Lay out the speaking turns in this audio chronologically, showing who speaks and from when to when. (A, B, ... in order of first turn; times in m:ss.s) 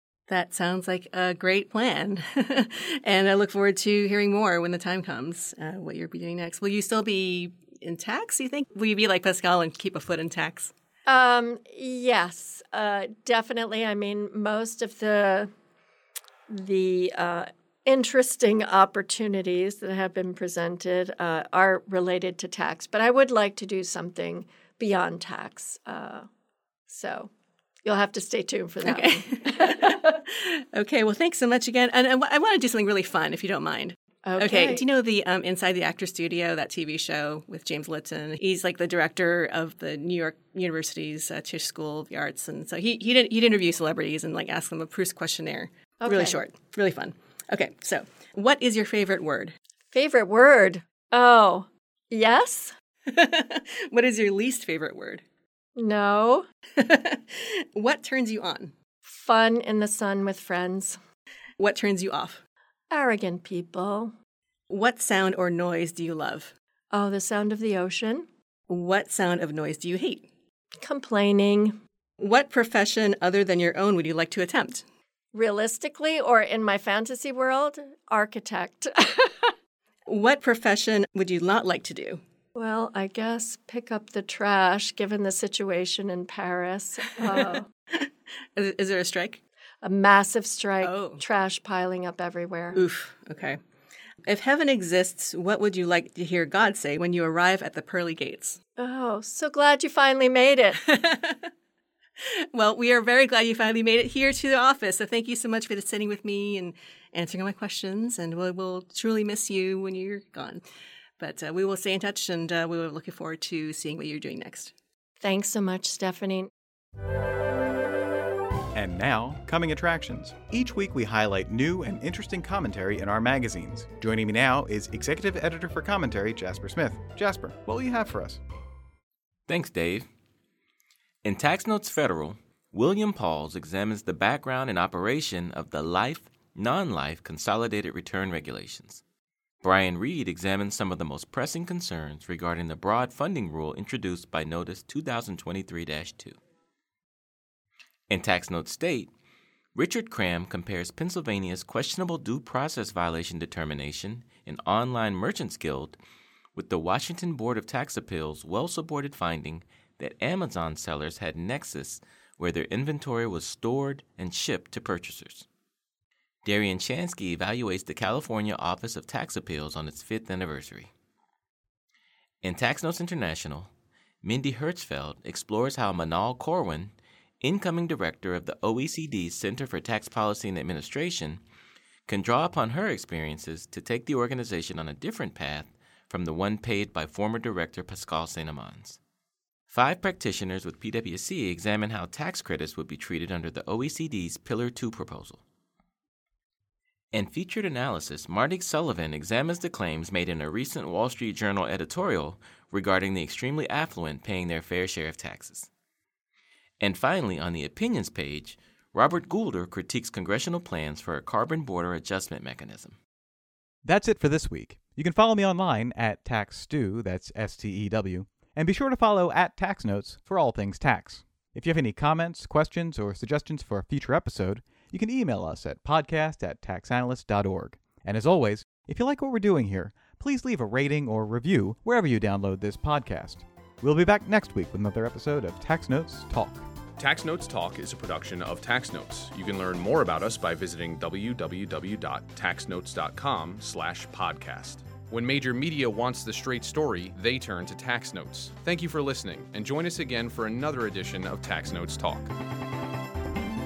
0:00.3-0:10.7 A
0:11.1-0:15.5 B
0:16.5-0:26.3 B
0:26.9-0:27.3 B
0:27.8-0:30.2 B
0:28.8-0:49.5 A
0:34.2-0:34.8 B
0:46.0-0:46.4 B
0:49.9-0:52.8 B
0:53.1-0:55.2 A
0:55.8-0:56.5 B
0:56.8-0:58.7 A
0:59.1-1:01.0 B
1:01.6-1:02.4 A
1:02.9-1:04.1 B
1:04.7-1:06.5 A
1:06.9-1:08.3 B
1:08.7-1:10.3 A
1:10.8-1:11.8 B
1:12.2-1:14.8 A
1:15.3-1:19.6 B
1:20.1-1:22.2 A
1:22.6-1:27.7 B
1:27.2-1:29.4 A
1:29.8-1:32.8 B
1:30.8-1:31.2 A
1:32.8-1:33.6 A
1:34.2-1:38.6 A
1:38.8-1:40.8 B
1:40.8-1:41.5 A
1:42.2-1:50.6 A
1:51.2-1:54.7 A
1:55.2-1:56.5 B
1:58.7-2:08.4 C
2:09.5-2:10.1 D
2:11.2-2:19.0 D
2:19.6-2:26.4 D
2:28.1-2:29.1 D
2:29.8-2:36.0 D
2:36.5-2:45.5 D
2:46.4-2:50.9 D
2:52.4-2:53.7 D
2:54.2-3:01.4 D
3:02.1-3:09.0 D
3:09.7-3:15.4 D
3:17.1-3:25.7 D
3:26.8-3:33.0 D
3:33.8-3:56.6 C
3:57.0-4:12.3 E